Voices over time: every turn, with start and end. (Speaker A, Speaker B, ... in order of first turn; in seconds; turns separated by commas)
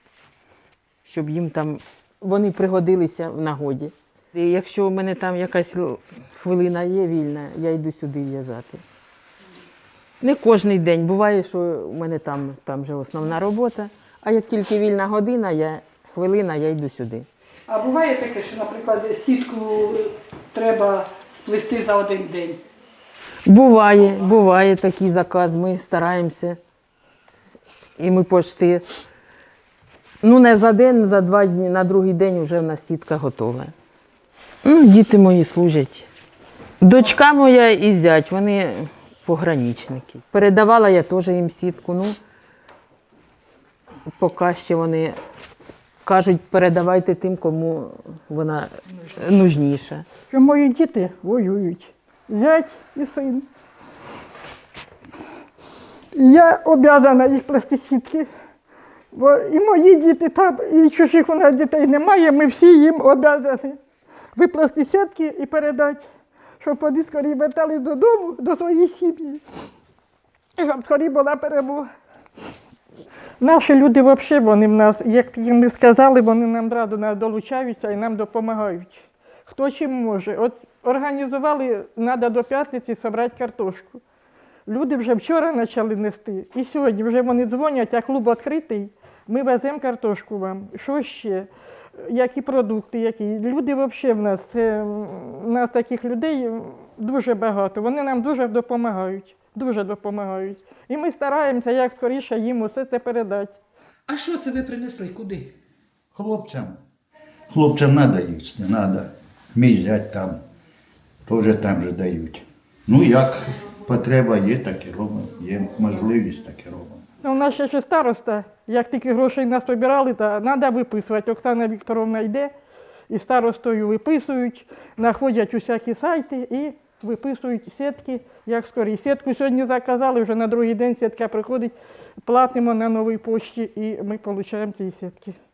Speaker A: 1.1-8.8, Speaker A: 10.2-17.3, Speaker B: 17.7-22.6, Speaker A: 23.5-26.6, Speaker A: 28.0-28.8, Speaker A: 30.2-33.7, Speaker A: 34.6-36.1, Speaker A: 36.8-42.2, Speaker A: 44.2-45.2, Speaker A: 46.0-50.1, Speaker C: 50.3-53.5, Speaker C: 56.1-58.3, Speaker C: 59.1-63.8, Speaker C: 64.4-66.1, Speaker C: 66.6-69.4, Speaker C: 70.6-71.9, Speaker C: 73.4-84.0, Speaker C: 84.7-91.5, Speaker C: 92.1-103.6, Speaker B: 104.1-105.5, Speaker D: 106.2-106.8, Speaker D: 107.5-110.4, Speaker D: 111.3-117.0, Speaker C: 117.2-122.5, Speaker C: 123.1-135.4